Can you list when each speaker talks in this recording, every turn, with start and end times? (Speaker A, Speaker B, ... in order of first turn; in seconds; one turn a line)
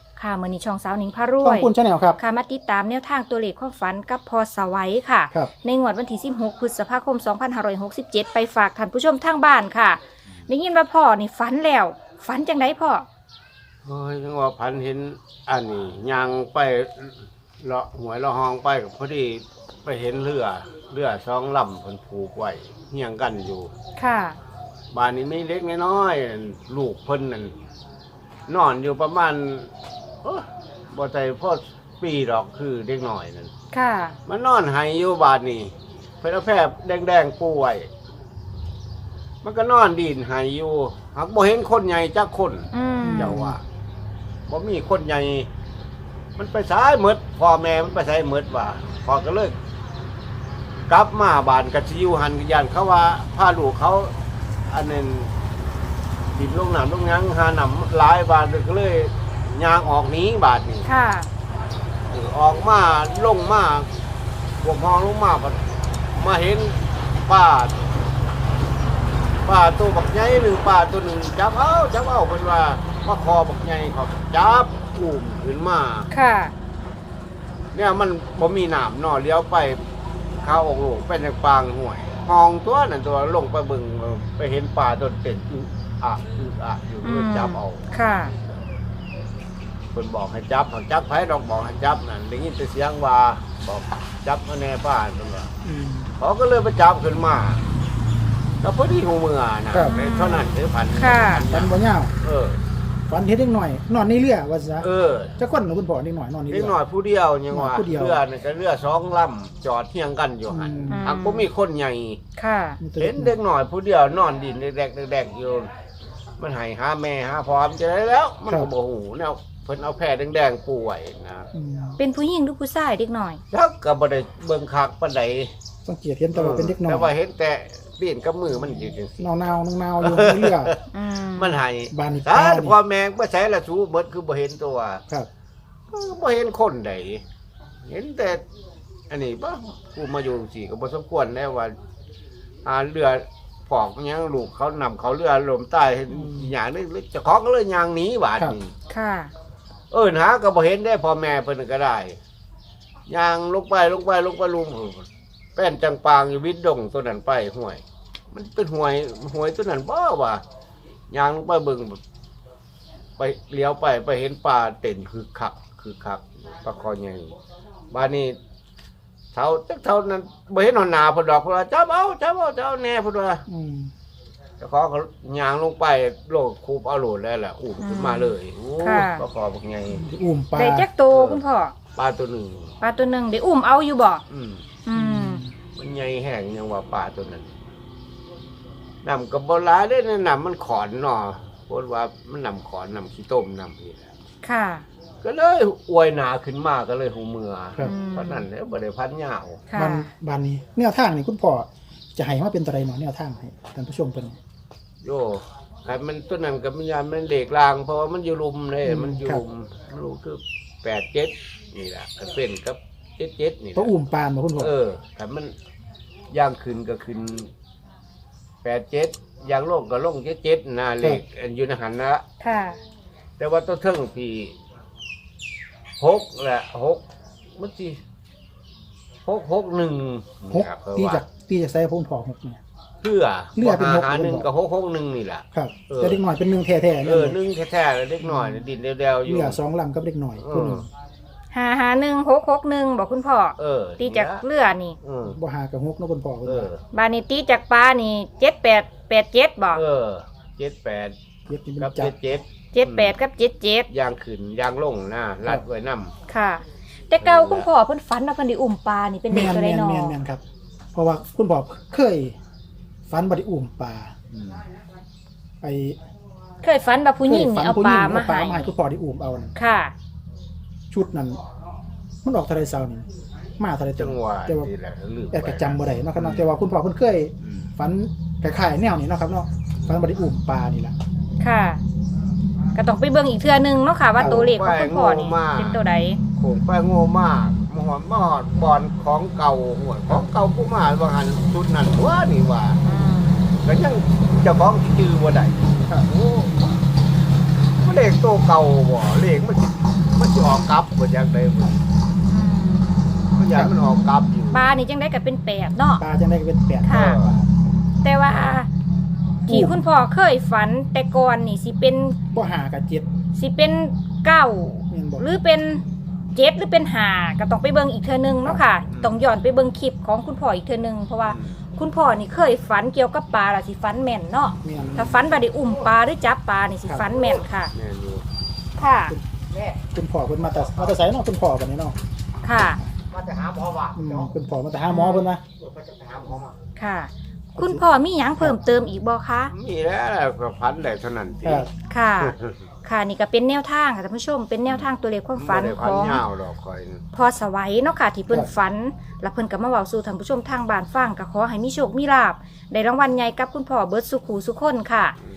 Speaker A: 0.2-13.1
Speaker B: 1.4-2.2
Speaker C: 13.8-23.7
Speaker A: 24.0-24.4
Speaker C: 24.9-27.5
Speaker C: 28.5-33.5
Speaker A: 33.7-34.2
Speaker C: 34.3-37.9
Speaker C: 39.4-43.6
Speaker A: 42.7-43.5
Speaker B: 43.0-43.5
Speaker C: 44.5-45.5
Speaker C: 46.4-49.6
Speaker C: 50.9-54.1
Speaker C: 54.7-55.3
Speaker C: 56.4-60.9
Speaker A: 60.9-61.3
Speaker C: 62.1-63.9
Speaker C: 64.6-65.6
Speaker C: 66.2-67.8
Speaker C: 69.5-76.1
Speaker A: 76.1-76.5
Speaker C: 77.7-79.8
Speaker C: 80.4-87.8
Speaker A: 87.0-88.3
Speaker C: 89.9-95.5
Speaker B: 95.7-96.1
Speaker C: 96.2-97.7
Speaker C: 98.6-102.6
Speaker A: 99.8-101.5
Speaker B: 101.5-102.1
Speaker B: 103.1-106.8
Speaker C: 104.8-105.4
Speaker C: 106.5-112.2
Speaker B: 107.5-108.2
Speaker B: 110.5-111.1
Speaker A: 110.9-111.5
Speaker A: 112.4-112.8
Speaker B: 112.8-113.4
Speaker C: 113.0-115.7
Speaker C: 116.4-121.5
Speaker B: 121.5-122.0
Speaker A: 122.0-123.4
Speaker C: 123.5-125.5
Speaker B: 125.8-127.1
Speaker C: 126.3-129.3
Speaker B: 129.2-130.7
Speaker C: 130.0-130.8
Speaker A: 130.9-131.6
Speaker C: 131.3-135.0
Speaker B: 131.9-132.8
Speaker C: 135.9-137.2
Speaker C: 137.9-138.4
Speaker C: 139.1-141.8
Speaker C: 142.7-148.7
Speaker B: 146.1-146.5
Speaker A: 148.9-149.3
Speaker C: 149.9-152.2
Speaker C: 153.1-160.4
Speaker C: 161.1-162.0
Speaker C: 163.2-167.4
Speaker C: 167.9-168.4
Speaker C: 169.3-173.4
Speaker B: 173.5-173.9
Speaker C: 174.6-180.1
Speaker A: 177.8-179.2
Speaker B: 179.9-180.9
Speaker A: 180.5-181.8
Speaker C: 181.1-181.4
Speaker C: 182.0-182.7
Speaker A: 182.8-184.2
Speaker C: 184.3-184.7
Speaker A: 184.8-185.4
Speaker B: 184.9-185.5
Speaker C: 185.8-187.5
Speaker C: 189.0-194.1
Speaker A: 194.4-194.8
Speaker C: 195.2-199.7
Speaker A: 197.8-198.5
Speaker A: 199.7-200.1
Speaker B: 199.8-204.4
Speaker C: 205.0-213.9
Speaker B: 208.8-209.4
Speaker B: 213.8-214.7
Speaker C: 214.6-215.5
Speaker C: 216.3-217.5
Speaker C: 218.6-222.2
Speaker A: 222.4-222.8
Speaker C: 223.4-224.5
Speaker C: 226.0-227.0
Speaker C: 227.6-228.0
Speaker C: 229.3-231.2
Speaker B: 230.5-232.6
Speaker C: 233.0-236.2
Speaker B: 233.6-234.5
Speaker B: 235.5-237.4
Speaker C: 237.0-239.6
Speaker B: 238.2-238.7
Speaker B: 239.2-240.9
Speaker C: 240.4-240.8
Speaker A: 241.5-245.0
Speaker C: 243.6-244.4
Speaker C: 245.0-245.4
Speaker B: 245.3-246.7
Speaker C: 246.4-246.8
Speaker A: 246.9-249.8
Speaker C: 249.7-251.2
Speaker B: 251.5-252.1
Speaker C: 251.8-253.2
Speaker A: 252.7-253.9
Speaker C: 253.9-256.1
Speaker A: 256.3-260.2
Speaker C: 257.2-257.7
Speaker B: 259.3-260.4
Speaker B: 260.9-262.4
Speaker B: 263.1-264.1
Speaker C: 264.3-264.6
Speaker B: 265.6-266.0
Speaker A: 266.6-268.7
Speaker B: 267.2-269.5
Speaker A: 269.6-269.9
Speaker B: 270.9-271.4
Speaker B: 272.2-273.1
Speaker B: 273.6-274.7
Speaker C: 274.0-276.6
Speaker B: 275.3-280.9
Speaker A: 281.4-281.8
Speaker A: 282.8-286.2
Speaker C: 284.2-285.8
Speaker C: 286.4-292.8
Speaker A: 292.8-293.4
Speaker C: 293.6-296.7
Speaker C: 297.8-301.8
Speaker A: 302.3-302.9
Speaker C: 303.4-304.7
Speaker A: 304.5-306.0
Speaker B: 306.0-307.5
Speaker A: 306.9-307.2
Speaker C: 306.9-307.4
Speaker A: 308.0-308.7
Speaker A: 309.5-312.2
Speaker B: 309.5-309.8
Speaker B: 312.3-313.1
Speaker A: 313.4-315.8
Speaker B: 314.9-315.3
Speaker A: 316.3-327.7
Speaker C: 318.9-319.2
Speaker C: 321.3-321.6
Speaker B: 324.6-325.3
Speaker C: 327.7-328.2
Speaker A: 328.8-329.2
Speaker B: 329.9-332.0
Speaker C: 330.7-330.9
Speaker A: 332.4-332.8
Speaker C: 333.1-334.3
Speaker B: 333.9-335.4
Speaker A: 334.9-335.3
Speaker C: 335.6-336.5
Speaker A: 336.8-339.5
Speaker B: 337.6-337.8
Speaker C: 339.5-342.6
Speaker A: 341.9-346.2
Speaker C: 344.7-347.0
Speaker A: 347.1-355.2